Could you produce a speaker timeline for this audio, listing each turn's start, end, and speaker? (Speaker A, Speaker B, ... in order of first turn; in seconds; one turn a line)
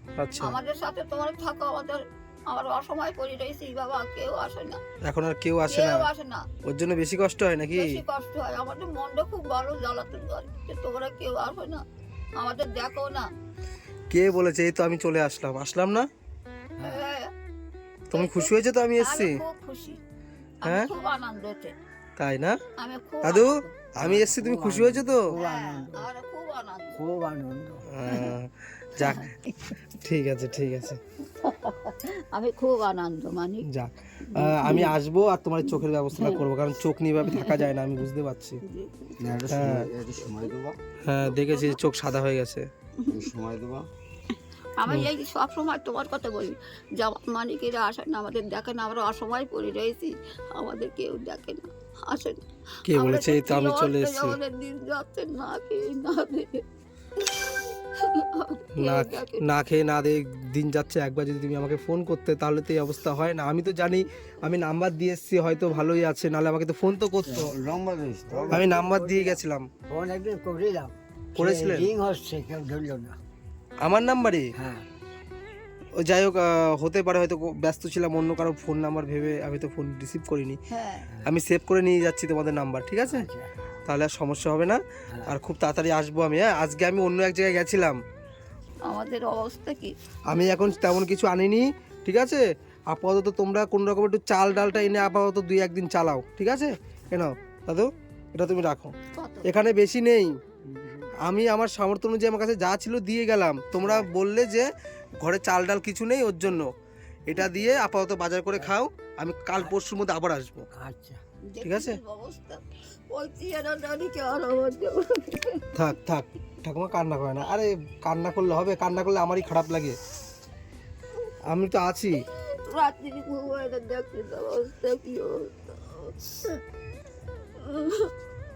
Speaker A: 0.2-0.6
Speaker B: 0.4-4.8
Speaker A: 5.0-6.0
Speaker B: 5.7-6.5
Speaker A: 6.6-8.0
Speaker B: 7.7-11.8
Speaker B: 12.4-13.3
Speaker A: 14.1-16.1
Speaker B: 16.8-17.3
Speaker A: 18.1-19.4
Speaker B: 18.1-20.0
Speaker B: 20.6-21.7
Speaker A: 20.6-20.9
Speaker A: 22.2-22.6
Speaker B: 22.8-23.7
Speaker A: 23.2-25.4
Speaker C: 24.4-25.8
Speaker B: 25.3-27.1
Speaker C: 27.0-27.8
Speaker A: 27.9-29.3
Speaker B: 28.0-28.3
Speaker B: 29.0-29.8
Speaker A: 29.9-31.0
Speaker B: 31.3-33.7
Speaker A: 33.7-38.6
Speaker B: 34.2-34.9
Speaker B: 36.1-36.4
Speaker B: 37.2-37.7
Speaker B: 38.6-39.4
Speaker D: 39.2-40.8
Speaker A: 39.5-39.9
Speaker B: 40.2-40.5
Speaker A: 41.0-42.6
Speaker B: 41.1-41.8
Speaker B: 43.0-43.3
Speaker D: 43.1-43.9
Speaker B: 44.8-56.6
Speaker A: 52.9-54.4
Speaker B: 57.2-59.5
Speaker A: 58.8-67.5
Speaker D: 67.2-68.7
Speaker A: 68.5-69.7
Speaker C: 68.6-69.3
Speaker C: 69.9-73.2
Speaker A: 71.3-71.9
Speaker A: 73.8-74.5
Speaker C: 74.5-74.8
Speaker A: 76.0-80.6
Speaker B: 80.7-81.1
Speaker A: 81.2-83.3
Speaker C: 83.1-83.5
Speaker A: 83.8-88.0
Speaker B: 88.8-89.9
Speaker A: 90.3-98.9
Speaker B: 99.1-99.5
Speaker A: 99.4-100.3
Speaker C: 100.7-101.1
Speaker A: 101.2-104.7
Speaker A: 105.2-106.7
Speaker A: 107.3-110.7
Speaker C: 110.8-111.2
Speaker B: 111.5-115.7
Speaker A: 111.6-112.0
Speaker A: 115.8-120.0
Speaker A: 121.5-122.2
Speaker B: 122.5-126.6
Speaker B: 127.6-128.1